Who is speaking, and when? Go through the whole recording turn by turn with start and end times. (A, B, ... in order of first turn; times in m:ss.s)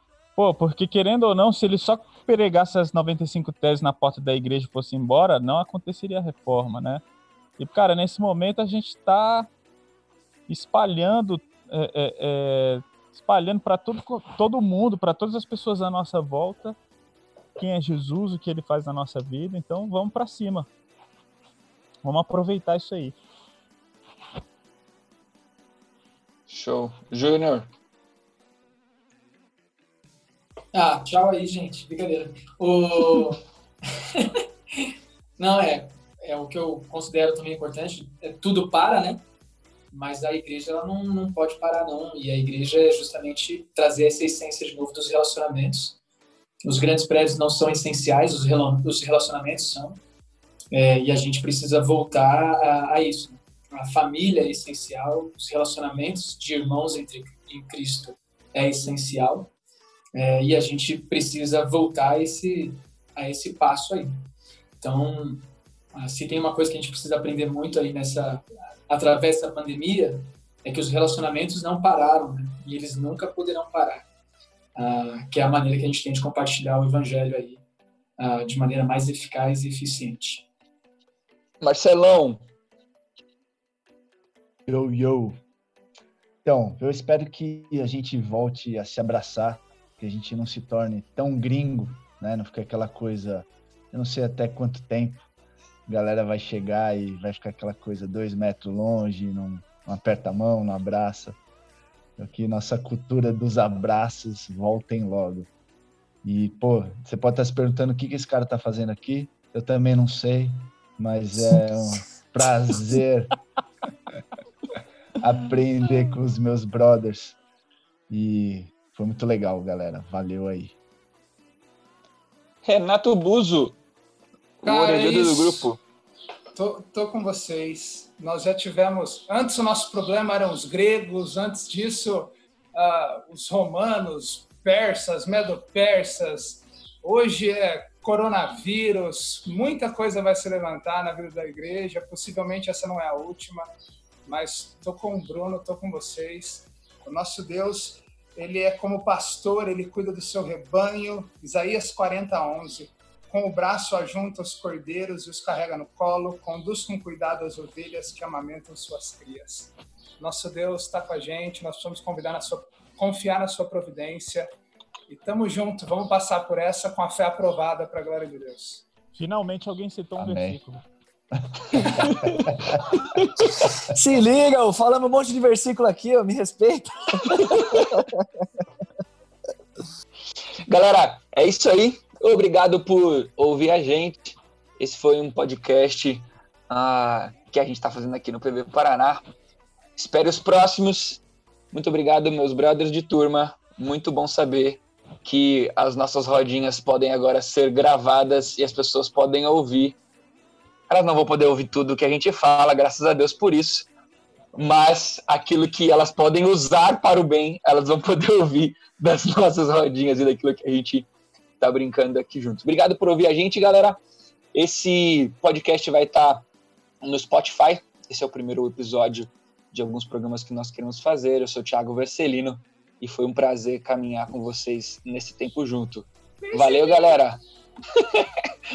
0:00.4-0:07.0 A
0:07.6-0:09.5 A
0:10.5-0:16.8 A
0:17.6-0:20.7 A
0:22.0-0:23.1 A
0:26.5-0:27.7 B
0:30.7-0:33.4 C
0:34.1-0:39.2 C
0:39.9-0:46.0 C
0:46.6-0:50.0 C
0:50.7-0:59.5 C
1:00.1-1:04.2 C
1:04.8-1:14.0 C
1:14.8-1:17.6 C
1:18.2-1:20.4 C
1:21.6-1:22.4 B
1:24.7-1:25.4 D
1:26.4-1:35.2 D
1:35.9-1:41.4 D
1:42.2-1:45.5 D
1:46.2-1:53.3 D
1:55.2-1:57.4 D
1:58.1-2:00.7 D
2:02.6-2:03.8 B
2:04.6-2:05.8 B
2:04.6-2:05.7 E
2:06.5-2:23.7 E
2:24.2-2:44.5 E
2:45.1-2:48.9 E
2:49.1-2:50.8 A
2:50.2-2:50.6 D
2:51.4-2:52.8 D
2:53.1-2:53.6 B
2:53.8-2:58.5 F
3:00.7-3:09.2 B
3:10.0-3:11.2 B
3:11.7-3:20.0 B
3:20.9-3:23.9 B
3:24.5-3:31.1 B
3:31.6-3:34.0 B
3:34.5-3:36.4 B
3:37.0-3:47.4 B
3:46.5-3:47.0 E
3:47.9-3:48.3 B